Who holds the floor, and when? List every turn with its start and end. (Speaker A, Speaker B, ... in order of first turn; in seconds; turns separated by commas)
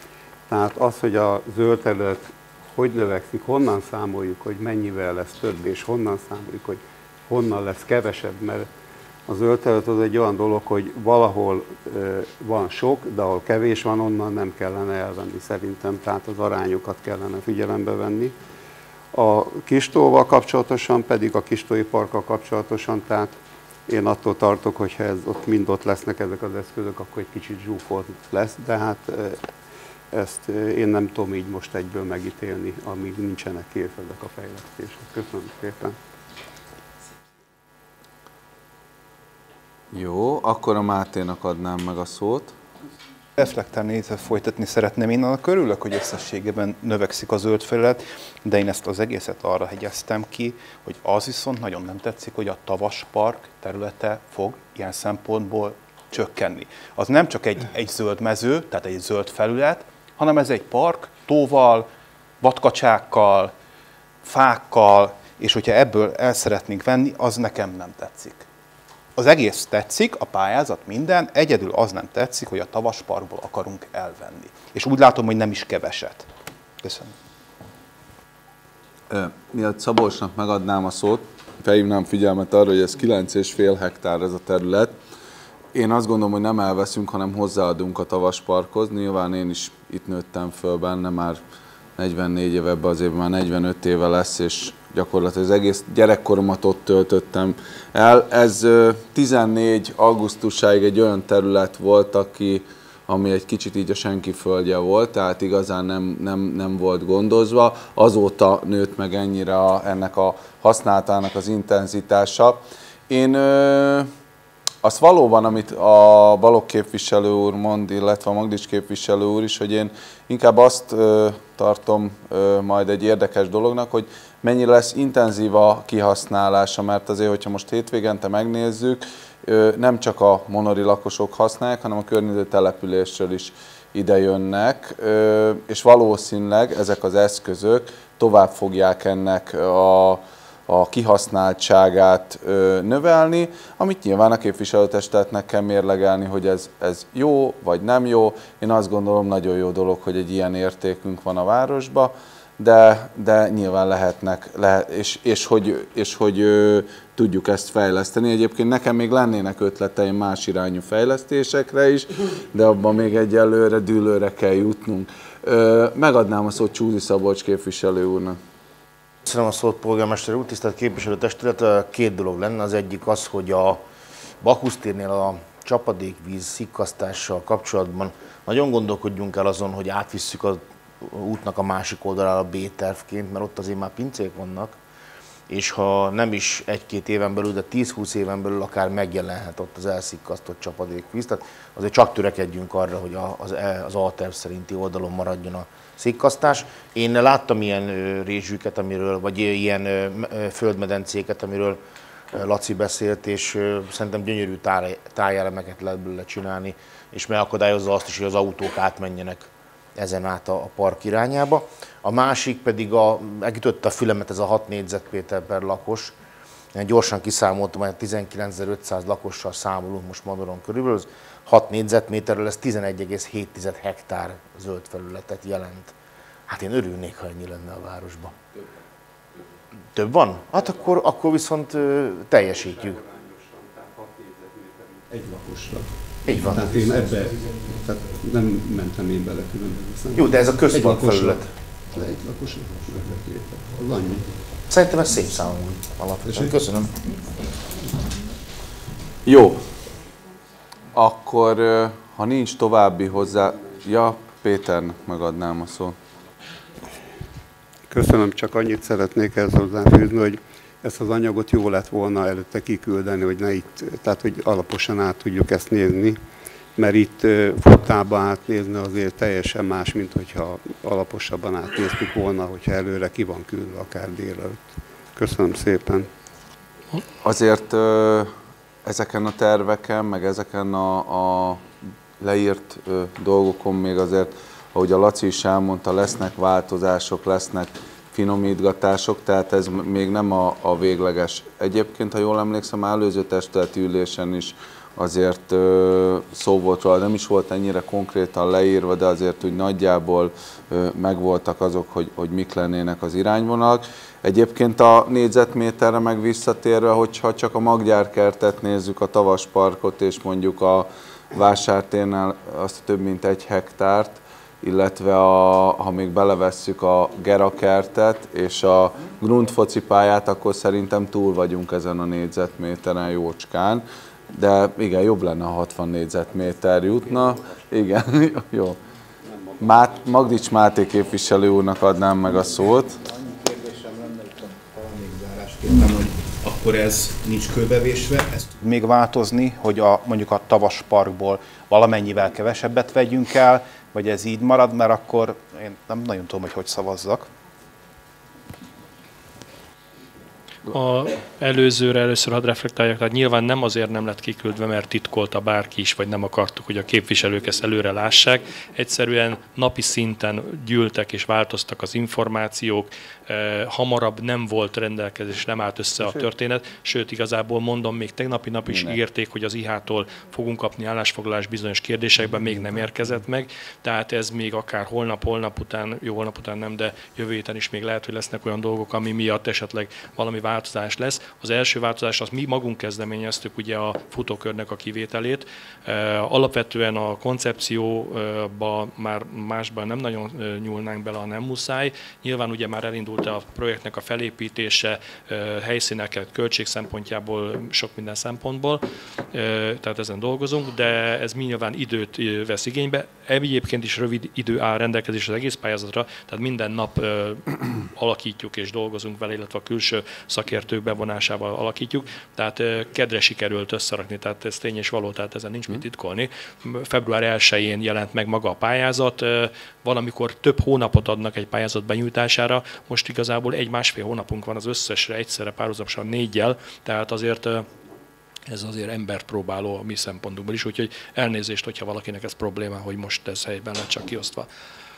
Speaker A: 0.5-8.7, Speaker A: 9.3-18.3, Speaker A: 19.1-23.4, Speaker A: 23.9-29.5, Speaker A: 30.1-36.0, Speaker B: 39.9-42.5, Speaker C: 43.4-61.9, Speaker C: 62.4-63.5, Speaker C: 64.2-68.5, Speaker C: 69.2-76.3, Speaker C: 76.8-77.1, Speaker B: 79.1-84.9, Speaker B: 85.7-91.4, Speaker B: 92.0-114.1, Speaker B: 114.8-168.4, Speaker D: 169.2-173.8, Speaker D: 174.4-184.8, Speaker D: 185.5-201.8, Speaker D: 202.3-216.2, Speaker D: 216.7-225.9, Speaker D: 226.5-228.3, Speaker D: 229.9-233.0, Speaker A: 232.4-244.3, Speaker D: 236.2-236.8, Speaker D: 240.1-241.5, Speaker D: 244.7-246.9, Speaker A: 246.3-246.6, Speaker B: 249.2-249.6, Speaker B: 250.9-256.0, Speaker A: 257.9-266.2, Speaker A: 266.8-276.1, Speaker B: 277.2-278.3, Speaker B: 278.8-328.8, Speaker B: 329.6-333.0, Speaker C: 333.0-347.3, Speaker E: 350.7-427.7, Speaker A: 366.0-366.3, Speaker B: 368.6-369.0, Speaker E: 428.5-434.5